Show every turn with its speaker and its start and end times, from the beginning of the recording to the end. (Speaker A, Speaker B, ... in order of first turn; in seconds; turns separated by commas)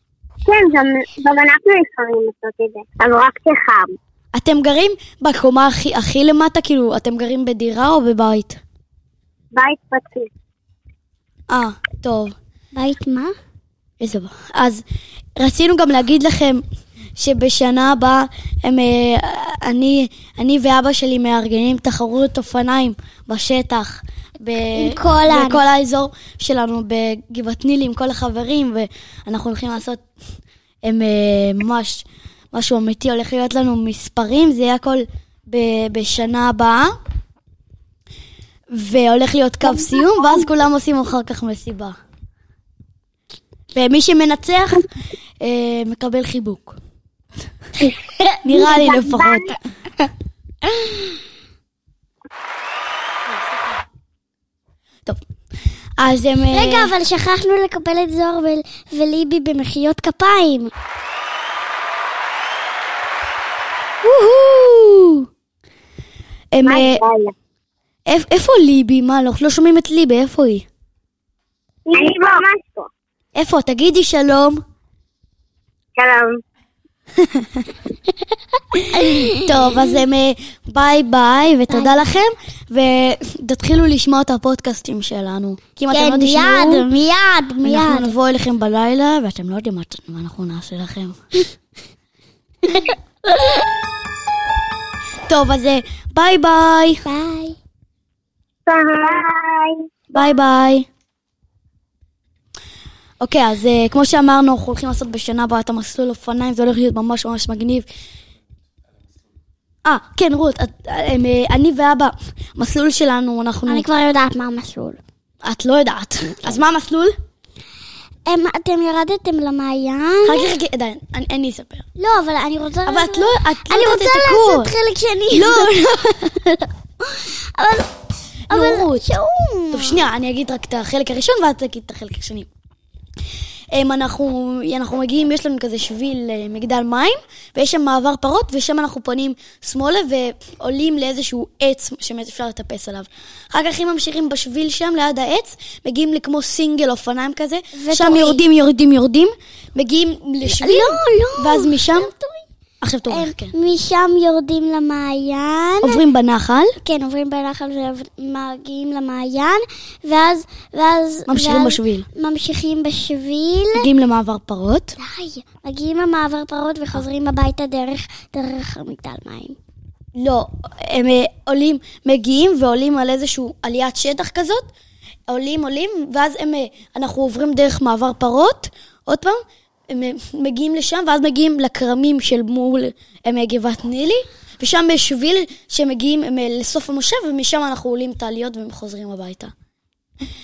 Speaker A: 0.4-3.9, Speaker B: 4.3-8.6, Speaker A: 9.5-10.3, Speaker B: 11.5-12.3, Speaker C: 12.7-13.3, Speaker B: 14.0-14.8, Speaker B: 15.4-16.6, Speaker B: 17.2-30.0, Speaker C: 24.7-25.6, Speaker B: 30.9-36.9, Speaker B: 38.7-42.0, Speaker B: 43.7-44.9, Speaker B: 45.4-46.8, Speaker B: 48.4-49.6, Speaker A: 48.6-49.4, Speaker C: 48.7-49.1, Speaker C: 50.7-51.0, Speaker B: 56.0-56.9, Speaker C: 56.5-60.7, Speaker B: 64.0-65.2, Speaker B: 66.5-67.0, Speaker A: 66.6-67.3, Speaker B: 68.1-70.7, Speaker A: 71.9-72.9, Speaker B: 73.3-74.6, Speaker A: 76.0-76.4, Speaker B: 77.2-77.6, Speaker C: 78.9-79.5, Speaker B: 79.3-86.8, Speaker C: 81.7-82.0, Speaker C: 85.9-88.1, Speaker B: 87.6-91.2, Speaker B: 95.3-97.0, Speaker C: 97.0-97.6, Speaker A: 98.7-99.8, Speaker B: 100.1-100.8, Speaker B: 103.2-107.8, Speaker B: 109.8-113.8, Speaker C: 113.7-115.0, Speaker B: 115.4-117.1, Speaker C: 118.2-120.5, Speaker B: 120.2-121.8, Speaker C: 122.0-125.7, Speaker B: 122.8-124.7, Speaker B: 125.3-126.5, Speaker C: 127.0-127.9, Speaker B: 128.5-129.1, Speaker C: 128.5-130.0, Speaker B: 129.7-132.5, Speaker B: 133.7-152.1, Speaker C: 147.8-148.4, Speaker C: 150.4-152.4, Speaker B: 152.8-153.5, Speaker C: 153.1-156.0, Speaker B: 155.8-156.7, Speaker C: 156.8-163.8, Speaker B: 161.3-162.1, Speaker B: 163.8-164.9, Speaker C: 165.0-169.6, Speaker B: 170.2-174.7, Speaker B: 175.3-189.5